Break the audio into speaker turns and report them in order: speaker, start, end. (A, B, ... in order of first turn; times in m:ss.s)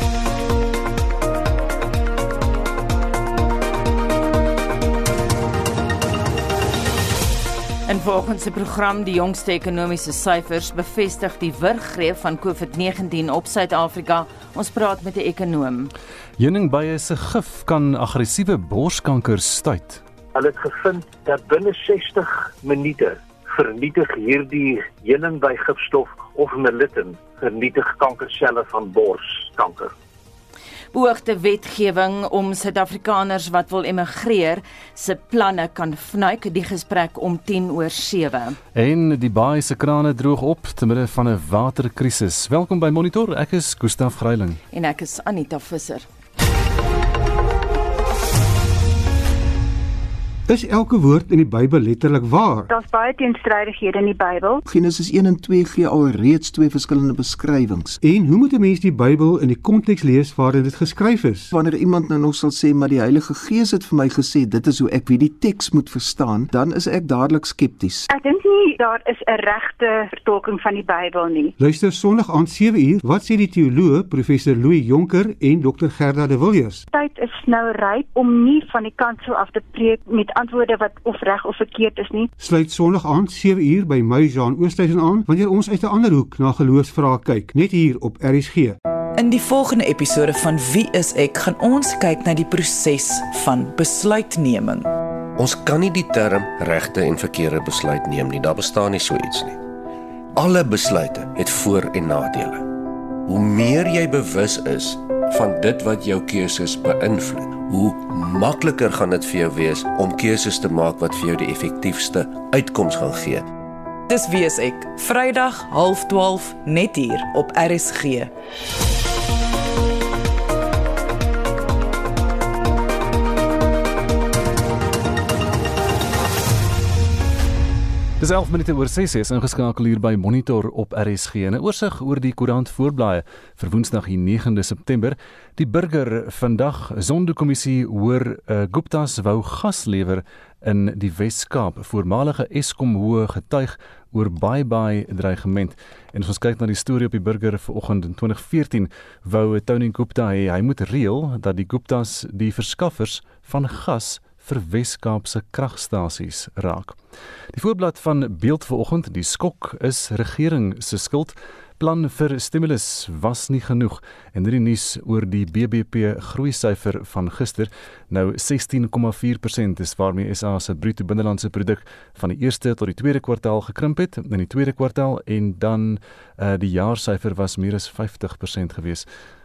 0:07.9-0:15.9 A
0:16.4-0:20.0 B
0:20.3-0:29.9 C
0:30.9-0:38.6 A
0:38.7-0:44.6 B
0:44.7-0:46.0 A
0:50.5-0:52.7 D
0:52.7-0:54.6 E
0:54.6-0:58.0 F
0:58.0-1:01.5 D
1:01.5-1:08.0 F
1:08.1-1:11.5 E
1:11.6-1:16.8 D
1:16.9-1:22.3 E
1:22.4-1:28.8 D
1:29.1-1:34.9 G
1:35.4-1:39.6 H
1:40.3-1:42.7 H
1:43.2-1:53.4 H
1:54.1-1:58.3 G
2:08.2-2:37.0 B
2:37.5-2:59.1 B